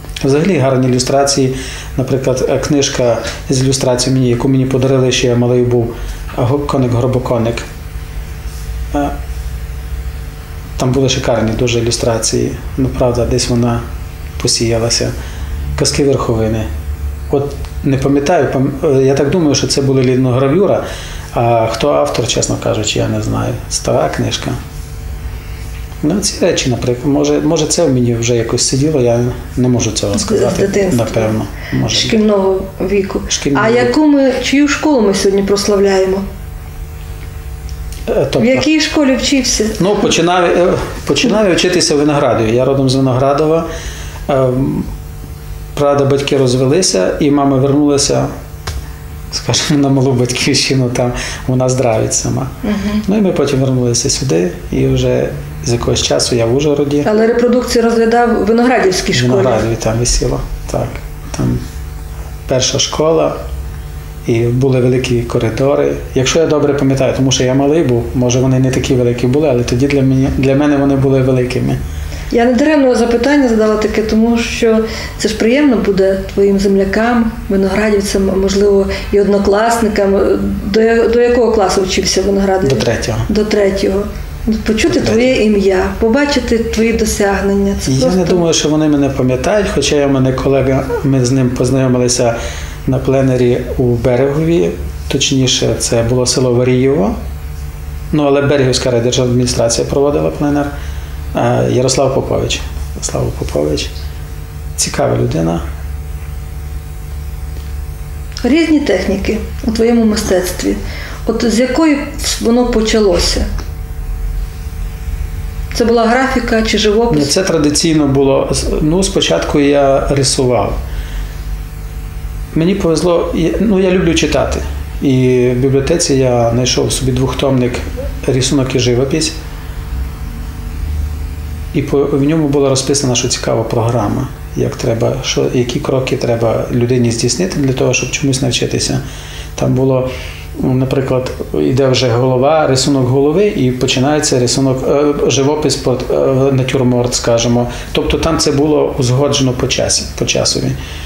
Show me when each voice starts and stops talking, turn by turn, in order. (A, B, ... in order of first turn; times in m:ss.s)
0:00.2-0:07.6 A
0:10.8-0:13.8 A
0:14.4-0:15.1 A
0:15.8-0:16.7 A
0:17.3-0:24.6 A
0:26.0-0:32.2 A
0:30.1-0:31.3 B
0:31.9-0:36.2 B
0:33.3-0:33.9 A
0:38.1-0:38.7 A
0:38.4-0:39.8 B
0:39.8-0:43.7 A
0:44.3-0:44.9 A
0:45.7-0:48.3 A
0:49.3-0:52.5 A
0:52.6-0:53.0 B
0:53.0-0:57.1 A
0:57.0-0:59.6 B
0:59.1-1:01.6 A
1:02.5-1:03.4 A
1:04.2-1:11.8 A
1:12.3-1:28.4 B
1:22.6-1:23.3 A
1:24.9-1:25.4 A
1:27.8-1:37.2 A
1:38.1-1:40.7 A
1:41.3-1:43.9 A
1:44.8-1:45.6 A
1:48.4-1:53.5 B
1:55.7-1:57.3 B
1:57.1-2:00.8 A
2:02.5-2:09.3 A
2:11.7-2:19.0 A
2:19.6-2:30.8 A